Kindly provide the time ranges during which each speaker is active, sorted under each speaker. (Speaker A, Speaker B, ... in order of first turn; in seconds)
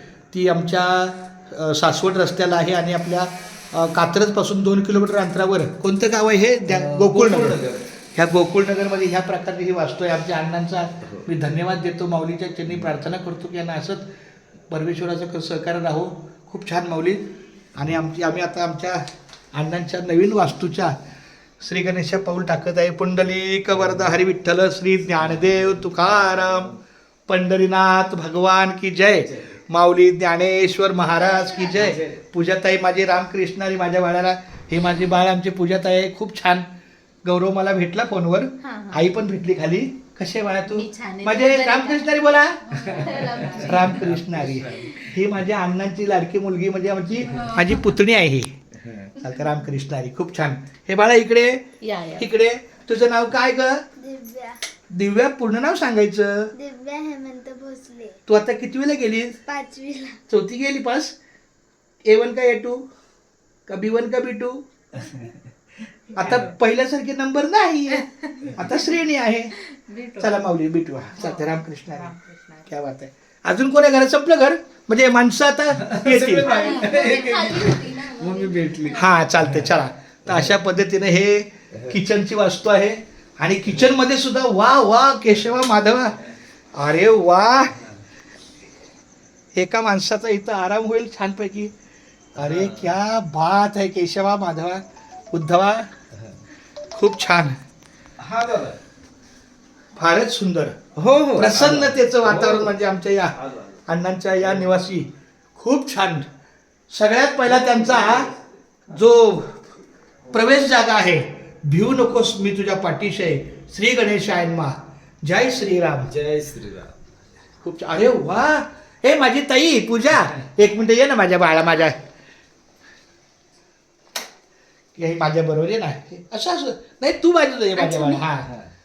Speaker A: 0.3-7.6, 8.1-14.1, 14.7-21.0, 21.6-26.8, 27.3-36.7, 37.2-42.6, 43.4-53.9, 54.9-56.5, 58.2-59.4, 60.3-61.1, 62.0-62.9, 63.7-65.2, 66.1-69.6, 70.2-72.1, 72.7-76.8, 78.9-87.9, 89.5-91.7, 92.3-95.9, 96.9-97.6, 100.0-100.8, 101.3-106.3, 106.9-108.3, 108.9-109.6, 110.3-116.1, 117.6-122.0, 124.9-128.5
Speaker B: 6.7-7.9, 11.0-11.3, 29.2-29.5, 31.7-32.2, 42.7-45.0, 48.8-49.1, 66.2-66.5, 75.8-79.7, 80.3-80.5, 92.4-92.9, 98.2-98.8, 101.0-102.8, 103.4-103.7, 107.5-108.4, 116.0-117.0
Speaker C: 38.6-39.0, 40.7-42.1, 42.7-44.1, 47.3-47.8, 51.8-52.3, 69.7-70.2, 71.2-72.6, 76.4-79.1, 127.8-128.2
Speaker D: 54.0-54.6, 56.5-58.2, 59.5-60.2